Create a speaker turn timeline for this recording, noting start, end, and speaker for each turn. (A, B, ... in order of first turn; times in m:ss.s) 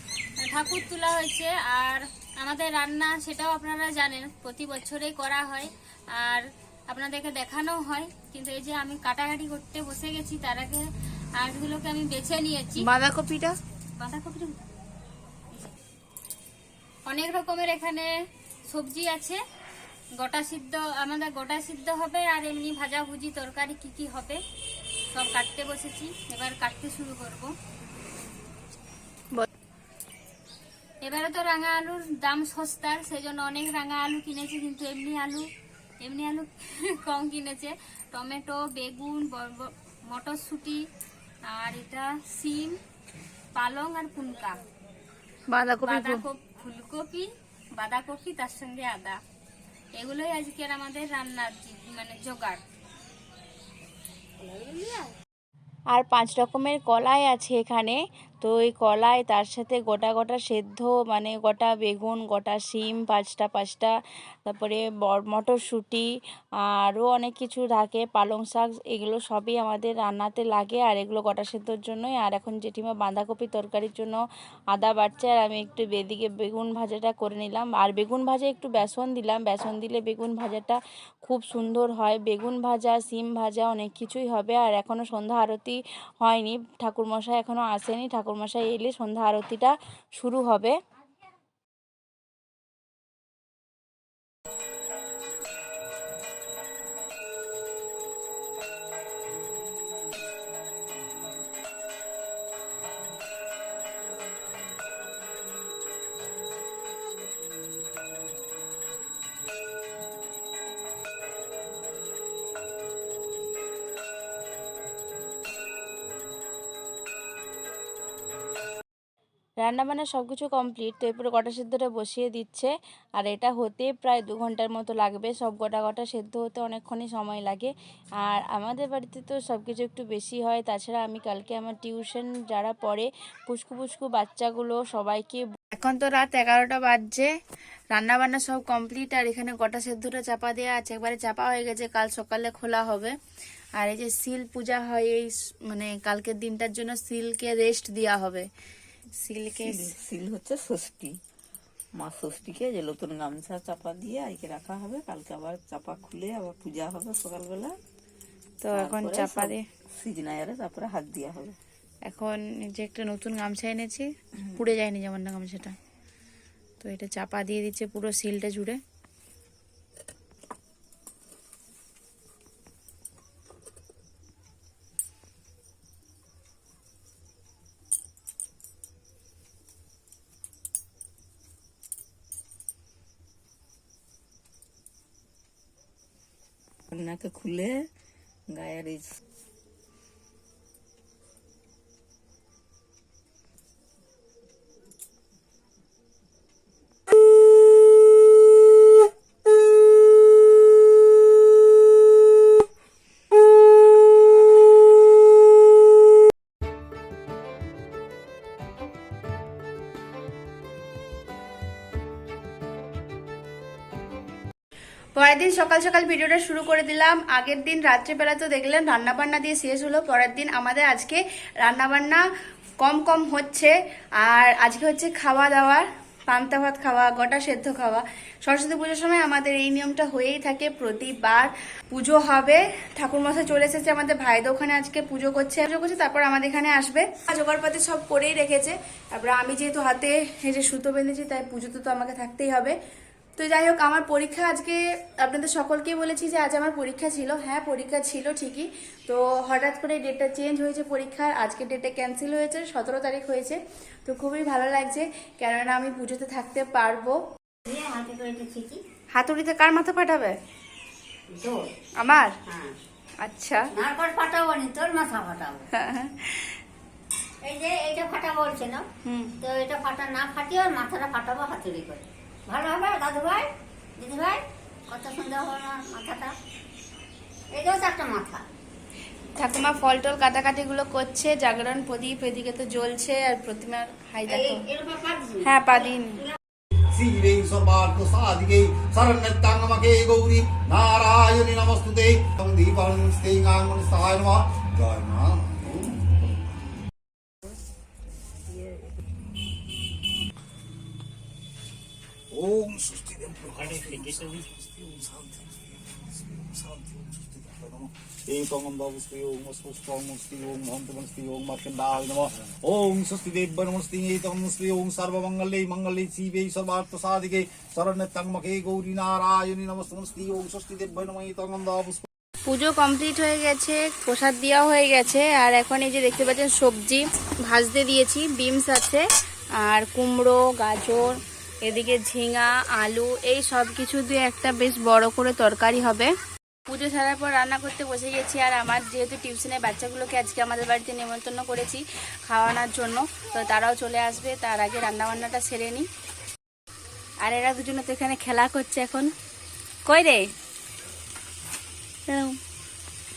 0:00.4-0:12.9 A
0:12.8-0:13.5 B
0:14.0-0:14.6 A
0:17.0-0:18.1 A
0:18.7-0:19.4 A
0:20.2-0:24.4 A
0:25.1-0:27.5 A
0:31.0-0:35.5 A
0:36.0-0:40.9 A
0:41.5-0:42.8 A
0:43.5-0:44.6 A
0:45.5-0:46.2 B
0:45.8-0:49.2 A
0:50.0-0:52.6 A
0:55.9-1:03.9 B
1:04.4-1:06.1 B
1:06.7-1:14.2 B
1:14.7-1:30.7 B
1:59.6-2:17.3 B
2:17.9-2:23.1 B
2:23.8-2:28.4 B
2:29.2-2:29.9 B
2:29.5-2:31.2 C
2:32.0-2:37.7 C
2:38.6-2:39.6 B
2:38.7-2:41.6 C
2:42.0-2:45.7 B
2:46.8-2:48.8 B
3:06.9-3:07.8 C
3:08.5-3:09.2 C
3:35.1-3:42.2 B
3:42.8-4:02.8 B
4:03.4-4:17.2 B
4:17.6-4:18.8 D
4:19.1-4:20.4 B
4:21.3-4:21.7 D
4:22.0-4:22.3 B
4:22.5-4:22.8 D
4:23.2-4:23.7 B
4:23.7-4:25.6 D
4:25.7-4:26.6 B
4:27.4-4:28.8 D
4:29.0-4:29.3 B
4:29.4-4:36.3 D
4:37.5-4:38.4 D
4:39.4-4:44.7 B
4:44.2-4:46.3 D
4:45.4-4:46.2 B
4:46.9-4:56.4 E
5:02.3-5:22.1 E
5:22.4-5:29.0 B
5:29.6-5:36.1 B
5:36.7-5:45.9 B
5:47.2-5:49.1 B
5:49.8-5:50.3 B
5:52.1-5:52.4 B